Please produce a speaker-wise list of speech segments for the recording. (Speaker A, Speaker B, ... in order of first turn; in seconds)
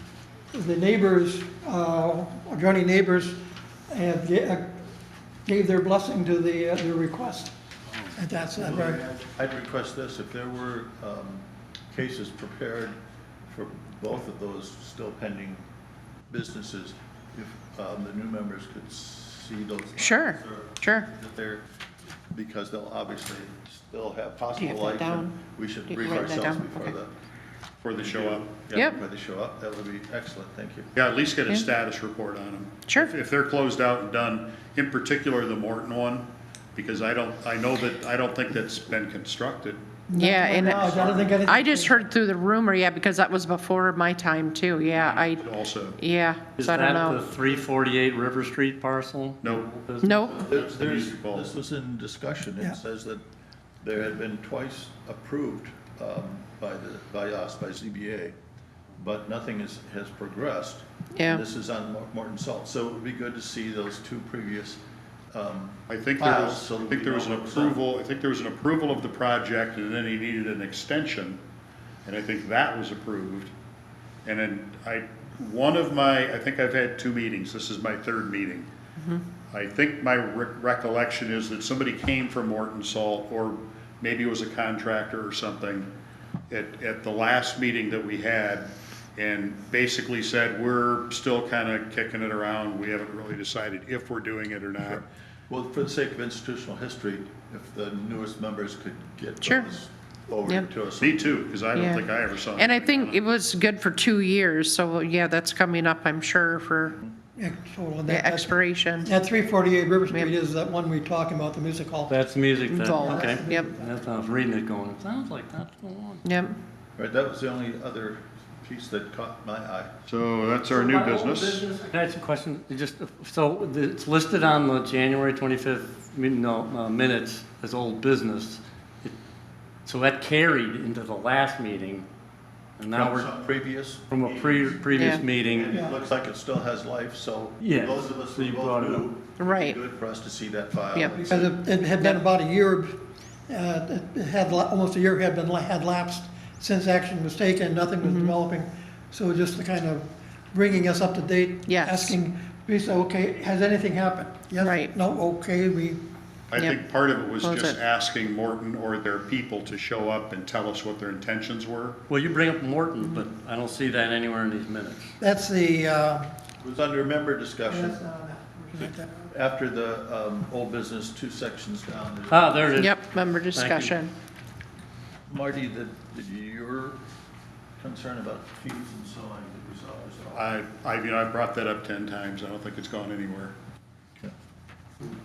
Speaker A: 0.5-4.8, 5.5-7.5, 8.1-9.0, 40.1-42.1, 107.4-112.2, 113.0-114.0, 141.1-156.0, 165.2-166.3, 167.7-169.3
Speaker B: 8.6-13.0, 13.5-15.7, 16.3-21.6, 22.3-27.1, 27.9-30.9, 50.3-53.2, 53.8-58.4, 59.0-67.8, 95.5-101.5, 106.9-107.1, 117.0-120.0, 132.9-141.5, 166.6-168.0, 168.8-172.8, 175.3-177.0, 177.8-180.4
Speaker C: 20.0-21.1, 24.6-25.4, 25.9-26.9, 28.7-29.0, 32.9-33.1, 40.2-45.5, 46.0-47.2, 50.0-50.5, 61.1-61.4, 79.0-79.2, 101.7-107.0, 108.1-109.1, 112.7-113.7, 116.2-116.6, 134.9-135.2, 139.4-139.8, 148.0-148.3, 151.7-152.2, 154.6-154.9, 156.6-156.8, 157.4-157.8, 172.8-174.1
Speaker D: 27.8-28.6, 31.0-40.0, 40.7-41.3, 44.9-46.0, 49.4-49.9, 50.4-51.5, 65.9-71.4, 72.0-73.5, 74.2-78.7, 79.5-85.9, 86.5-95.0, 101.0-103.2, 120.1-121.7, 156.5-162.0, 180.3-183.5
Speaker E: 46.5-50.2, 112.1-116.2, 120.7-129.2, 129.8-132.1, 132.8-133.3, 134.1-135.8, 137.6-139.2, 162.1-165.1, 172.3-173.0, 173.5-174.0